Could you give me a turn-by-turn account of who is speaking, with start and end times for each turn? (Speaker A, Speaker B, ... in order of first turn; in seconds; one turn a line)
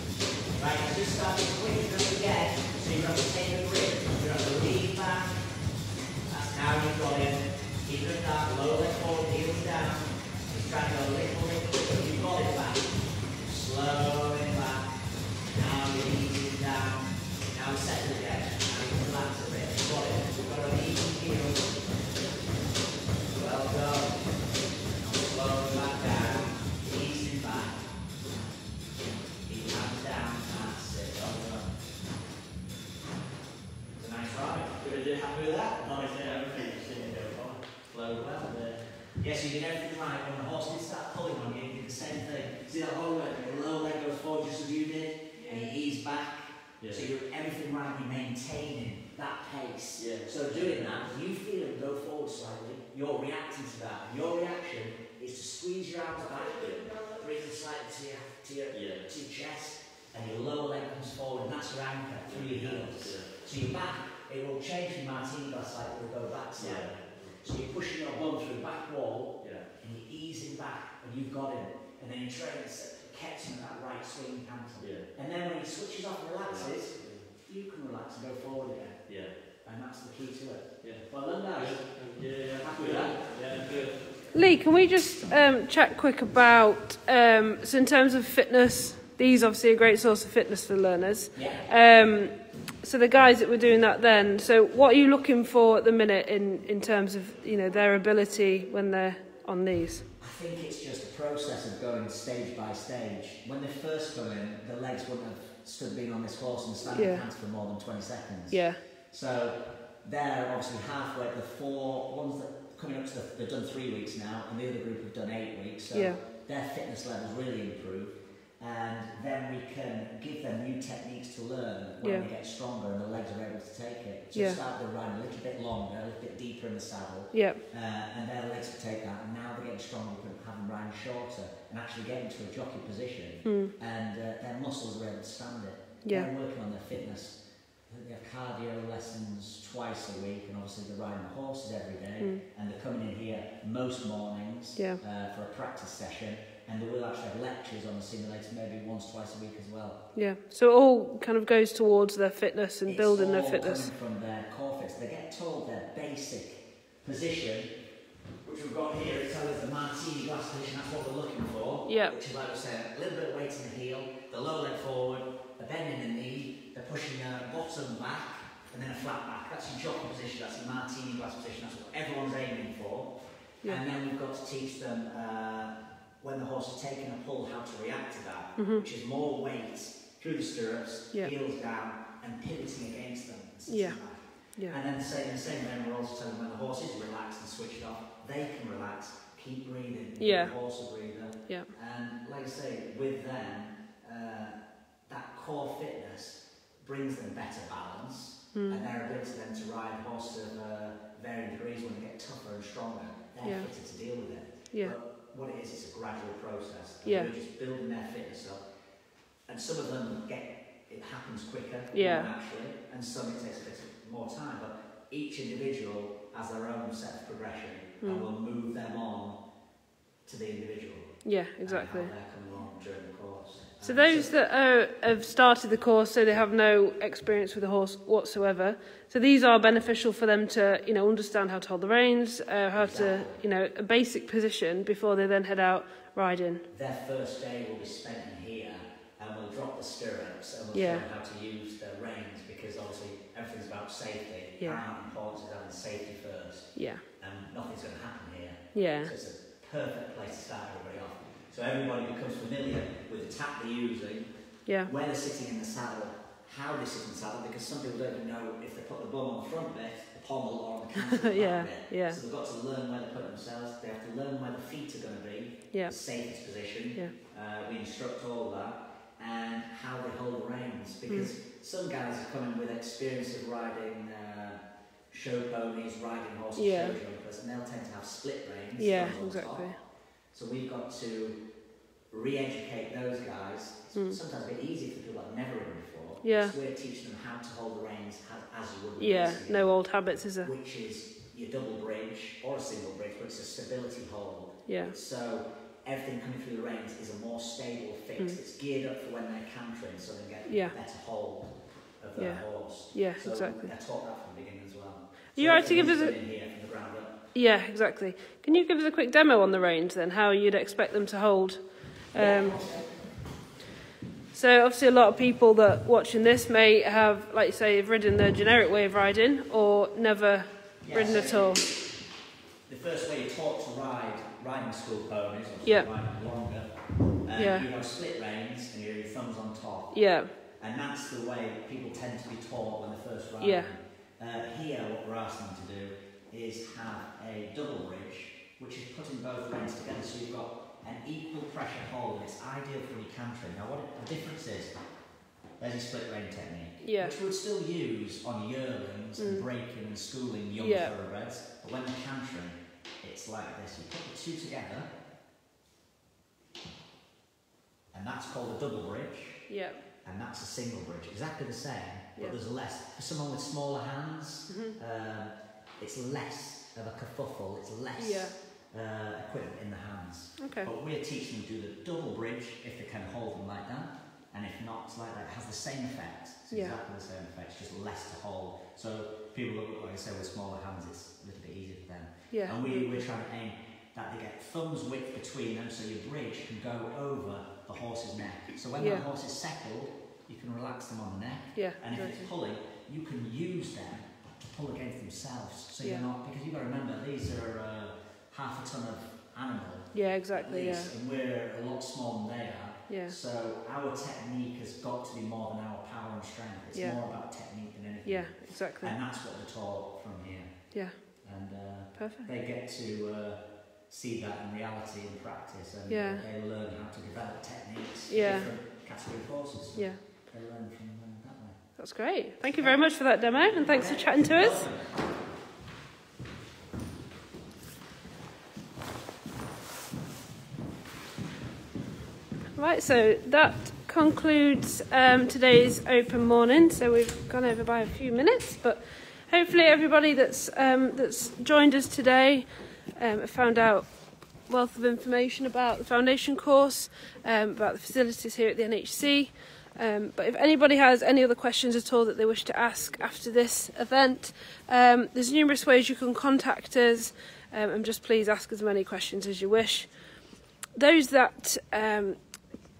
Speaker A: 0.6-5.3
Speaker A: 6.3-14.9
Speaker A: 15.5-21.7
Speaker A: 23.3-24.2
Speaker A: 24.9-27.9
Speaker A: 29.4-31.6
Speaker B: 31.3-31.6
Speaker A: 34.0-36.7
Speaker B: 34.8-38.8
Speaker A: 37.9-38.6
Speaker A: 39.1-83.2
Speaker B: 46.8-47.1
Speaker B: 50.0-50.7
Speaker B: 56.5-57.0
Speaker B: 58.7-59.1
Speaker B: 62.2-63.4
Speaker B: 66.5-67.4
Speaker B: 69.4-69.7
Speaker B: 74.8-75.1
Speaker B: 76.4-77.3
Speaker B: 79.0-79.4
Speaker B: 80.8-84.1
Speaker C: 84.3-100.0
Speaker A: 91.3-91.7
Speaker A: 100.2-150.1
Speaker C: 106.9-107.2
Speaker C: 108.5-108.8
Speaker C: 115.9-116.2
Speaker C: 122.0-122.3
Speaker C: 124.3-124.6
Speaker C: 127.3-127.6
Speaker C: 133.4-133.7
Speaker C: 136.0-136.3
Speaker C: 144.8-145.0
Speaker C: 150.1-153.9
Speaker A: 152.8-157.7
Speaker A: 158.4-208.6
Speaker C: 161.8-162.2
Speaker C: 178.6-178.8
Speaker C: 183.7-184.8
Speaker C: 190.2-190.5
Speaker C: 198.5-198.8
Speaker C: 203.4-203.7
Speaker C: 204.7-205.0
Speaker C: 207.0-207.3
Speaker A: 209.4-219.4
Speaker C: 211.9-212.3
Speaker C: 218.0-218.3
Speaker A: 220.2-224.3
Speaker C: 221.2-222.1
Speaker C: 223.8-236.7
Speaker A: 232.7-233.4
Speaker A: 236.7-281.4
Speaker C: 240.7-241.1
Speaker C: 244.6-244.8
Speaker C: 246.7-247.0
Speaker C: 248.7-249.1
Speaker C: 254.7-254.9
Speaker C: 261.0-262.2
Speaker C: 265.7-266.0
Speaker C: 271.1-271.3
Speaker C: 276.6-277.0
Speaker C: 278.8-279.8
Speaker A: 282.1-307.1
Speaker C: 283.9-284.2
Speaker C: 286.2-286.5
Speaker C: 289.0-290.5
Speaker C: 294.7-294.9
Speaker C: 300.5-300.8
Speaker C: 302.1-303.7
Speaker C: 305.3-306.2
Speaker C: 307.3-312.6
Speaker A: 312.1-313.0
Speaker C: 314.3-321.6
Speaker A: 320.8-321.6
Speaker A: 322.7-344.8
Speaker C: 327.3-327.7
Speaker C: 329.9-330.3
Speaker C: 333.4-333.7
Speaker A: 345.6-354.9
Speaker C: 346.8-347.2
Speaker C: 349.2-349.5
Speaker C: 350.6-350.9
Speaker A: 357.9-421.7
Speaker C: 359.5-359.8
Speaker C: 364.5-364.8
Speaker C: 368.0-368.4
Speaker C: 370.4-370.7
Speaker C: 376.5-376.8
Speaker C: 382.3-383.0
Speaker C: 388.8-389.1
Speaker C: 391.5-392.2
Speaker C: 395.8-396.1
Speaker C: 399.9-400.9
Speaker C: 402.9-403.2
Speaker C: 406.7-407.3
Speaker C: 408.0-409.0
Speaker C: 410.7-411.2
Speaker C: 411.9-412.3
Speaker C: 415.9-416.2
Speaker C: 418.1-418.5
Speaker C: 419.7-420.0
Speaker C: 421.8-424.7
Speaker A: 422.5-424.9
Speaker C: 432.6-459.9
Speaker C: 460.7-462.2